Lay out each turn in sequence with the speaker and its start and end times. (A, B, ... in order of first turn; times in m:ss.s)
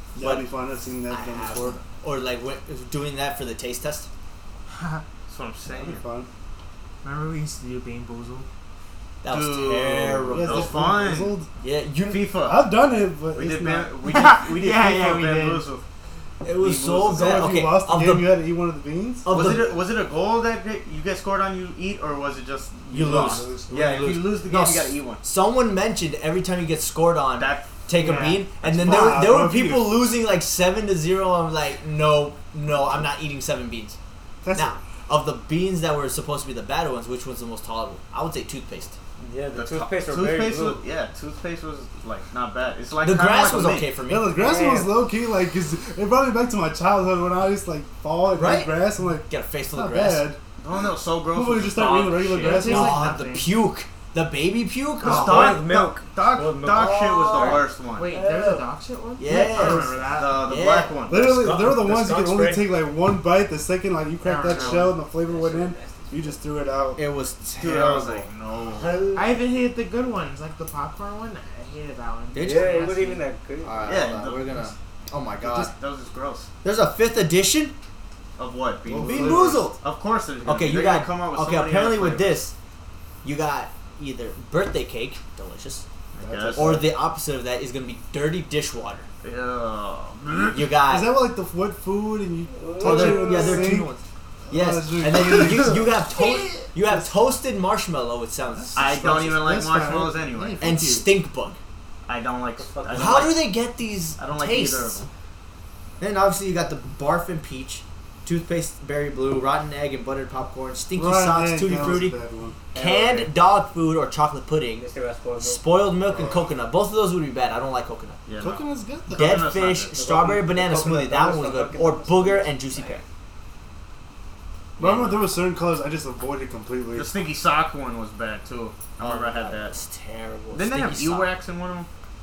0:00.1-0:01.8 A
0:00.2-0:00.5 B
0:01.1-0:04.1 B
0:04.7-0:05.0 C
0:05.3-0:06.0 D
0:05.7-0:06.3 A
0:07.0-0:08.5 C
0:09.2-0:10.7 B
0:09.3-0:11.4 D
0:10.3-0:11.5 A
0:11.6-0:12.3 B
0:12.1-0:12.7 D
0:12.4-0:13.9 A
0:13.3-0:15.8 D
0:14.1-0:15.6 C
0:16.4-0:18.4 B
0:16.6-0:17.6 D
0:16.9-0:19.3 A
0:19.2-0:19.8 B
0:19.3-0:25.2 D
0:22.9-0:24.2 A
0:22.9-0:34.0 B
0:27.4-0:27.7 D
0:28.0-0:28.4 C
0:28.6-0:30.0 A
0:28.8-0:29.1 D
0:34.4-0:34.8 A
0:34.5-0:39.0 B
0:39.2-0:40.8 E
0:39.5-0:43.9 D
0:43.0-0:44.3 B
0:44.1-0:50.4 A
0:44.3-0:44.9 E
0:48.3-0:48.8 B
0:49.3-0:50.3 B
0:50.6-0:52.7 D
0:51.3-0:53.1 A
0:52.4-0:53.5 C
0:52.4-0:55.6 B
0:55.0-0:58.0 D
0:55.0-0:58.6 E
0:56.9-0:57.6 B
0:57.9-1:00.5 C
0:59.2-0:59.9 B
0:59.3-1:01.2 D
1:00.4-1:02.6 B
1:01.1-1:07.0 A
1:01.4-1:02.4 E
1:04.2-1:05.0 C
1:04.7-1:06.4 E
1:07.0-1:08.3 B
1:07.6-1:08.9 D
1:08.7-1:09.3 E
1:09.1-1:13.3 C
1:12.3-1:12.8 B
1:12.4-1:13.9 E
1:13.6-1:15.7 B
1:13.8-1:14.6 D
1:15.4-1:15.7 A
1:15.7-1:16.5 D
1:16.6-1:17.7 B
1:18.4-1:22.4 D
1:18.9-1:19.7 A
1:19.0-1:19.8 B
1:20.4-1:22.5 B
1:23.2-1:25.8 B
1:26.1-1:26.7 D
1:26.2-1:26.9 A
1:26.5-1:29.0 B
1:29.2-1:30.6 D
1:30.5-1:31.1 B
1:30.8-1:33.9 A
1:32.5-1:33.6 E
1:32.8-1:38.9 B
1:34.5-1:35.9 A
1:38.5-1:41.1 A
1:38.7-1:40.6 D
1:40.6-1:41.6 B
1:42.0-1:43.5 D
1:42.6-1:43.3 E
1:43.0-1:45.0 B
1:44.2-1:45.1 D
1:46.0-1:52.2 B
1:50.9-1:52.6 A
1:52.7-1:53.3 D
1:52.7-1:58.2 B
1:54.8-1:55.9 E
1:56.1-1:56.4 A
1:58.3-1:59.9 D
1:58.4-1:59.5 A
1:59.1-2:03.0 B
1:59.9-2:03.0 E
2:04.8-2:05.3 D
2:04.8-2:07.1 A
2:06.9-2:09.7 D
2:09.0-2:11.3 B
2:10.5-2:11.9 D